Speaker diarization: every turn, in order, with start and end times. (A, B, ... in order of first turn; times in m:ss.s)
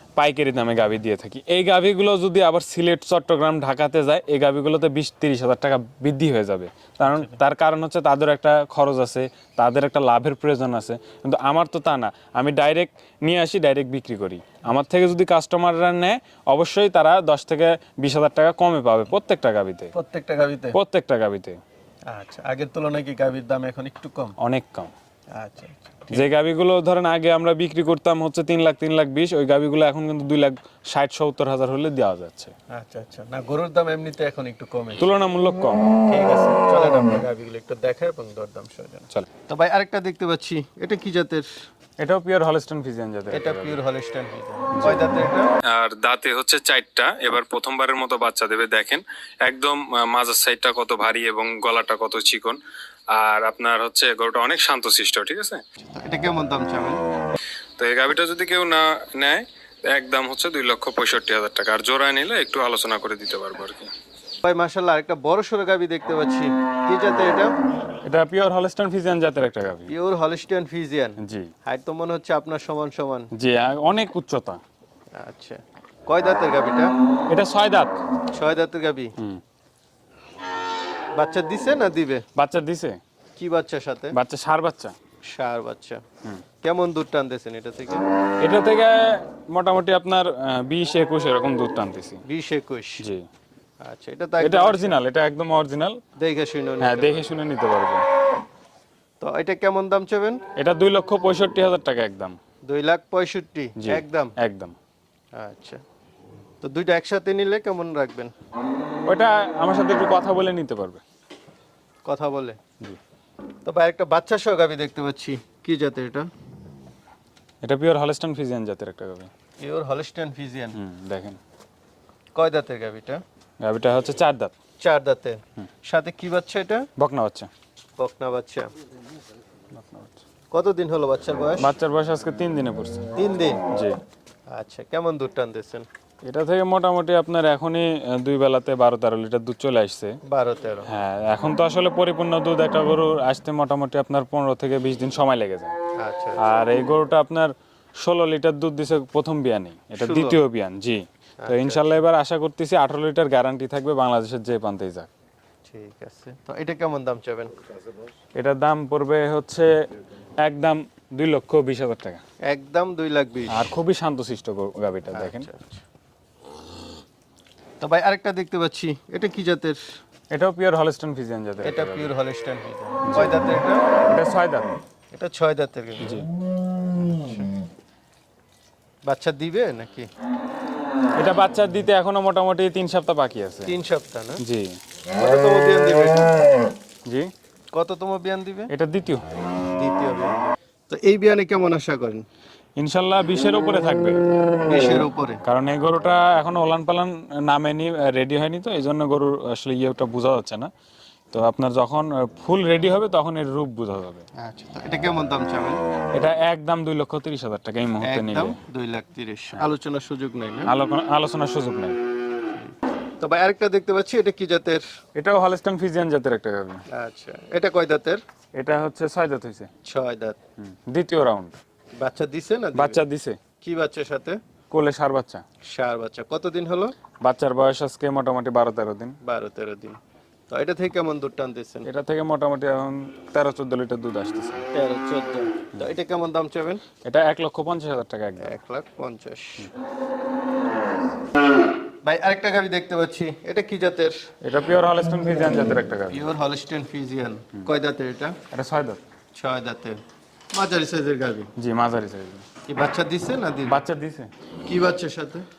0:00.2-0:19.9 A
0:07.0-0:07.4 B
0:19.9-0:20.8 B
0:20.7-0:21.6 A
0:22.1-0:24.3 B
0:24.4-0:24.9 A
0:25.3-0:26.3 B
0:26.1-0:32.5 A
0:32.7-0:35.1 B
0:35.0-0:35.9 A
0:36.1-0:41.5 B
0:42.0-0:43.7 A
0:43.3-0:45.5 B
0:45.6-0:52.6 A
0:53.1-0:55.6 A
0:55.8-0:57.0 B
0:57.8-1:03.9 A
1:04.4-1:07.5 B
1:08.0-1:09.9 A
1:09.9-1:13.3 B
1:11.2-1:11.5 A
1:13.3-1:14.6 A
1:15.2-1:16.9 B
1:17.3-1:18.0 A
1:18.3-1:19.1 B
1:21.2-1:22.2 B
1:22.4-1:23.0 A
1:23.4-1:24.1 B
1:24.1-1:24.9 A
1:25.3-1:26.0 B
1:26.6-1:28.0 B
1:28.4-1:32.2 A
1:32.2-1:33.0 B
1:33.8-1:35.0 B
1:34.4-1:36.0 A
1:36.2-1:37.3 B
1:36.8-1:38.0 A
1:39.2-1:40.4 B
1:40.6-1:42.4 A
1:42.6-1:44.3 B
1:43.8-1:44.8 A
1:45.4-1:45.8 B
1:46.6-1:48.3 B
1:49.0-1:51.0 A
1:52.0-1:52.6 B
1:53.6-1:56.3 B
1:57.6-1:59.3 A
1:59.6-2:00.8 B
2:00.7-2:01.4 A
2:02.3-2:03.2 B
2:03.6-2:04.5 A
2:04.8-2:06.9 B
2:07.0-2:07.5 A
2:08.0-2:08.7 B
2:09.7-2:10.2 A
2:10.5-2:11.7 B
2:11.6-2:13.1 A
2:13.1-2:13.6 B
2:13.7-2:14.0 A
2:14.5-2:15.8 B
2:16.2-2:20.2 A
2:20.2-2:20.9 B
2:20.9-2:25.7 A
2:26.0-2:26.4 B
2:26.4-2:35.1 A
2:30.0-2:30.4 B
2:31.4-2:32.0 B
2:35.6-2:37.5 B
2:38.4-2:39.7 A
2:40.4-2:42.2 A
2:42.4-2:43.6 B
2:43.5-2:45.5 A
2:45.1-2:45.8 B
2:47.8-2:49.8 B
2:50.3-2:52.1 A
2:51.6-2:53.9 B
2:53.1-2:53.4 A
2:54.1-2:54.7 A
2:55.1-2:56.2 B
2:56.0-2:56.3 A
2:56.9-2:57.4 B
2:59.0-3:00.1 B
3:01.2-3:03.7 A
3:03.6-3:04.4 B
3:04.4-3:04.8 A
3:05.1-3:06.5 B
3:07.7-3:08.7 B
3:08.7-3:09.2 A
3:09.7-3:12.2 B
3:12.8-3:14.2 A
3:14.6-3:15.4 B
3:15.4-3:20.7 A
3:21.3-3:24.2 A
3:24.4-3:25.8 B
3:26.1-3:28.6 A
3:28.0-3:30.7 B
3:30.7-3:32.0 A
3:32.5-3:34.8 B
3:35.2-3:36.8 A
3:36.9-3:38.2 B
3:38.6-3:39.7 A
3:39.8-3:40.4 B
3:40.7-3:41.6 A
3:42.0-3:43.0 B
3:42.7-3:43.4 A
3:43.6-3:44.4 B
3:44.7-3:45.4 A
3:45.7-3:46.9 B
3:47.2-3:49.2 A
3:49.2-3:50.0 B
3:50.5-3:51.9 B
3:51.8-3:54.6 A
3:54.7-3:56.8 B
3:57.0-3:58.6 A
3:58.4-3:59.7 B
4:02.0-4:04.2 B
4:04.4-4:06.2 A
4:06.1-4:08.4 B
4:08.5-4:09.0 A
4:09.3-4:10.0 B
4:10.5-4:11.5 B
4:11.6-4:12.4 A
4:12.7-4:13.8 B
4:13.6-4:14.3 A
4:14.6-4:15.4 B